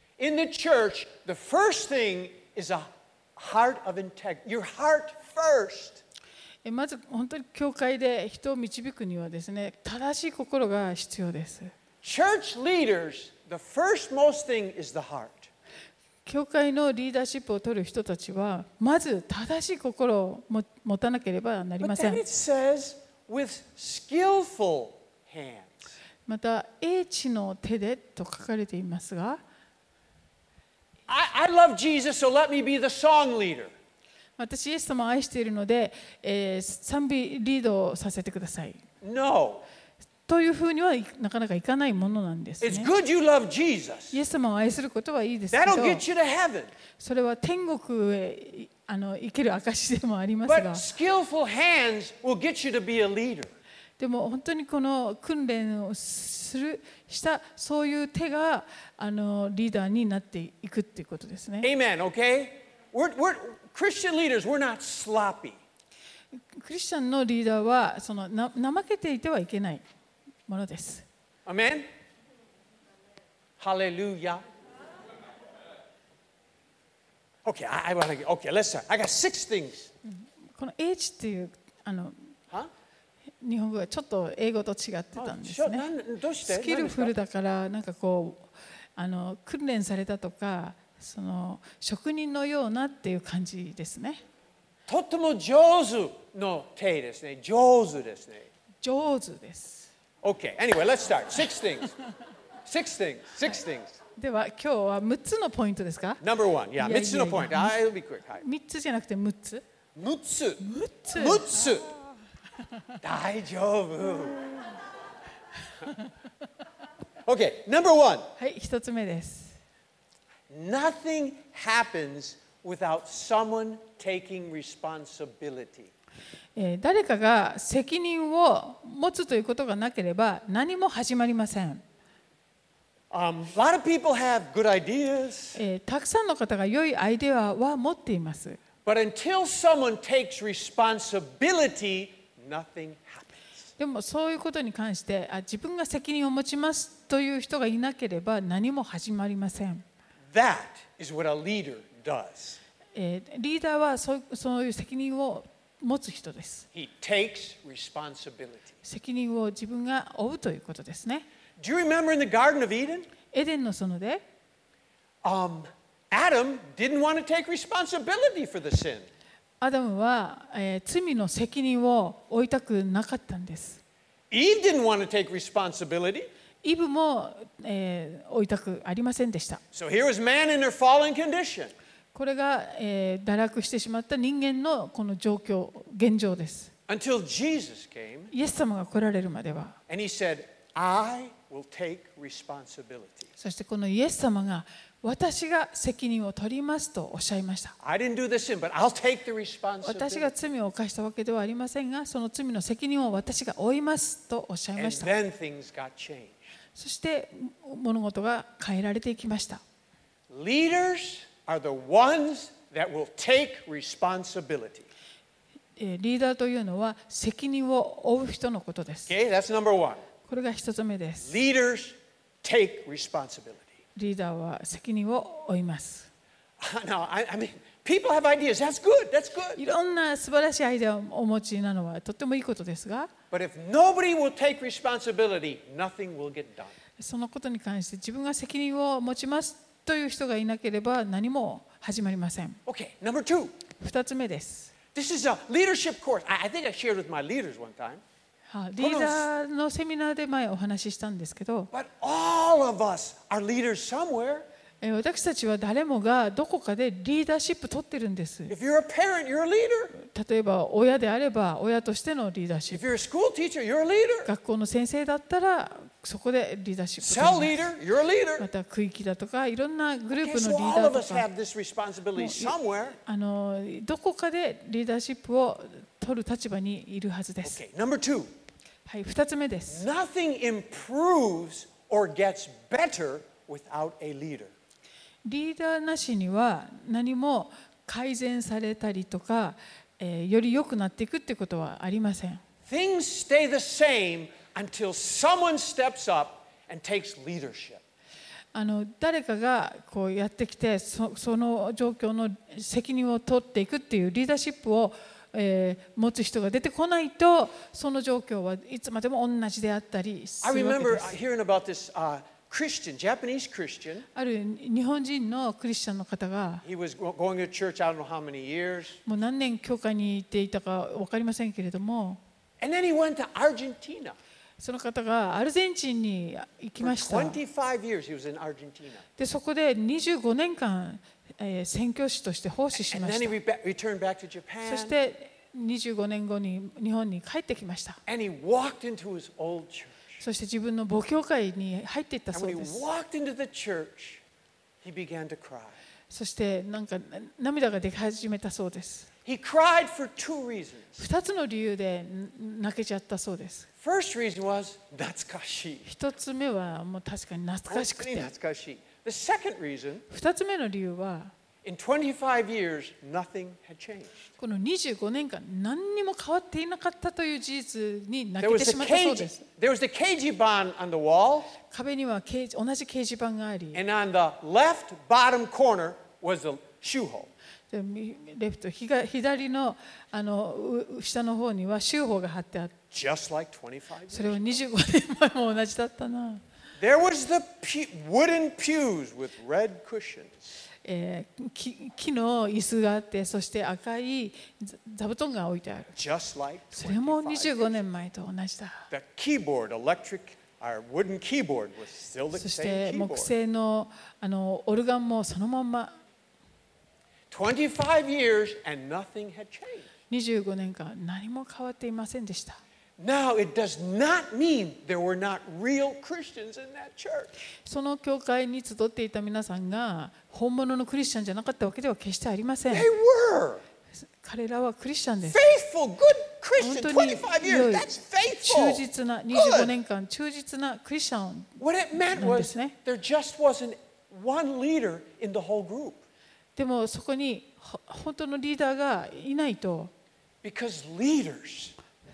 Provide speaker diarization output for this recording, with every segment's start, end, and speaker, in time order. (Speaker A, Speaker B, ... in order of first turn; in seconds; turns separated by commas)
Speaker A: 0.2-6.0, Speaker B: 6.7-11.7, Speaker A: 12.0-15.5, Speaker B: 16.2-22.2, Speaker A: 21.8-25.9, Speaker B: 26.3-29.4, Speaker A: 31.1-33.7, Speaker B: 34.4-38.8, Speaker A: 39.0-39.6, Speaker B: 40.3-42.9, Speaker A: 42.6-44.2, Speaker B: 44.1-46.0, Speaker A: 45.5-46.7, Speaker B: 47.0-50.9, Speaker A: 50.5-53.5, Speaker B: 54.0-61.7, Speaker A: 61.6-65.6, Speaker B: 66.4-69.8, Speaker B: 70.5-71.1, Speaker A: 71.5-71.9, Speaker A: 73.6-74.4, Speaker A: 77.4-79.9, Speaker B: 80.0-82.3, Speaker B: 83.4-85.8, Speaker A: 85.2-87.1, Speaker B: 86.5-94.2, Speaker A: 94.9-98.5, Speaker B: 98.8-99.9, Speaker A: 100.2-101.9, Speaker A: 102.7-104.0, Speaker B: 104.2-106.2, Speaker A: 106.2-108.4, Speaker B: 106.8-107.8, Speaker B: 108.4-109.6, Speaker A: 110.0-111.9, Speaker B: 110.6-111.8, Speaker A: 113.0-114.5, Speaker A: 117.3-118.3, Speaker B: 118.4-119.6, Speaker A: 120.5-125.9, Speaker B: 126.6-131.8, Speaker A: 133.1-135.6, Speaker B: 135.6-138.6, Speaker A: 138.8-143.5, Speaker B: 143.8-149.8, Speaker A: 150.3-152.6, Speaker B: 152.9-156.7, Speaker A: 156.7-158.8, Speaker B: 158.8-161.2, Speaker A: 161.6-163.1, Speaker B: 163.3-164.2, Speaker A: 165.2-169.1, Speaker B: 169.6-173.8, Speaker A: 174.3-176.3, Speaker B: 176.6-179.6, Speaker A: 179.7-181.7, Speaker B: 182.1-186.7, Speaker A: 186.9-188.3, Speaker B: 188.3-189.8, Speaker A: 189.9-193.3, Speaker B: 193.4-197.8, Speaker A: 197.8-200.3, Speaker B: 199.8-205.1, Speaker A: 204.8-206.6, Speaker B: 206.8-209.6, Speaker A: 210.3-214.9, Speaker B: 215.8-219.2, Speaker A: 219.1-220.0, Speaker B: 220.3-221.4, Speaker A: 221.2-223.8, Speaker B: 224.0-226.1, Speaker A: 226.6-229.6, Speaker B: 229.6-233.1, Speaker A: 233.3-236.8, Speaker B: 237.0-242.6, Speaker A: 242.7-243.5, Speaker B: 243.8-244.7, Speaker A: 244.9-248.0, Speaker B: 248.5-251.7, Speaker A: 248.8-249.3, Speaker A: 251.7-254.4, Speaker B: 254.8-258.5, Speaker A: 258.5-259.9, Speaker B: 259.9-262.8, Speaker A: 262.7-264.3, Speaker B: 264.2-267.6, Speaker A: 267.0-268.5, Speaker B: 268.4-271.3, Speaker A: 270.1-273.0, Speaker B: 272.2-277.6, Speaker A: 277.4-278.3, Speaker B: 278.9-279.8, Speaker A: 279.7-284.5, Speaker B: 285.2-292.4, Speaker A: 292.7-297.8, Speaker B: 298.5-311.1, Speaker A: 310.4-314.1, Speaker B: 314.1-316.6, Speaker A: 316.6-319.0, Speaker B: 319.1-322.2, Speaker A: 322.6-324.2, Speaker B: 324.6-327.4, Speaker A: 326.8-329.1, Speaker B: 329.2-333.4, Speaker A: 332.8-334.9, Speaker B: 334.6-338.0, Speaker A: 338.1-340.2, Speaker B: 340.2-342.9, Speaker A: 342.3-344.2, Speaker A: 344.8-345.8, Speaker B: 346.1-349.1, Speaker A: 349.2-351.0, Speaker B: 351.0-353.7, Speaker A: 353.8-355.9, Speaker B: 355.9-358.3, Speaker A: 357.7-360.1, Speaker B: 360.1-361.3, Speaker A: 361.6-364.3, Speaker B: 364.4-369.4, Speaker A: 368.4-371.5, Speaker B: 371.7-373.8, Speaker A: 373.7-377.3, Speaker B: 377.7-382.8, Speaker A: 382.9-384.6, Speaker B: 384.1-386.4, Speaker A: 386.8-390.5, Speaker B: 390.9-395.9, Speaker A: 395.9-397.8, Speaker B: 396.7-398.8, Speaker A: 398.9-403.3, Speaker B: 402.3-405.9, Speaker A: 407.3-409.9, Speaker B: 410.1-412.6, Speaker A: 413.0-417.3, Speaker B: 417.6-422.9, Speaker A: 422.7-423.6, Speaker B: 424.2-425.4, Speaker A: 425.3-429.7, Speaker B: 426.6-432.8, Speaker A: 431.6-436.0, Speaker B: 436.6-439.9, Speaker A: 440.4-441.8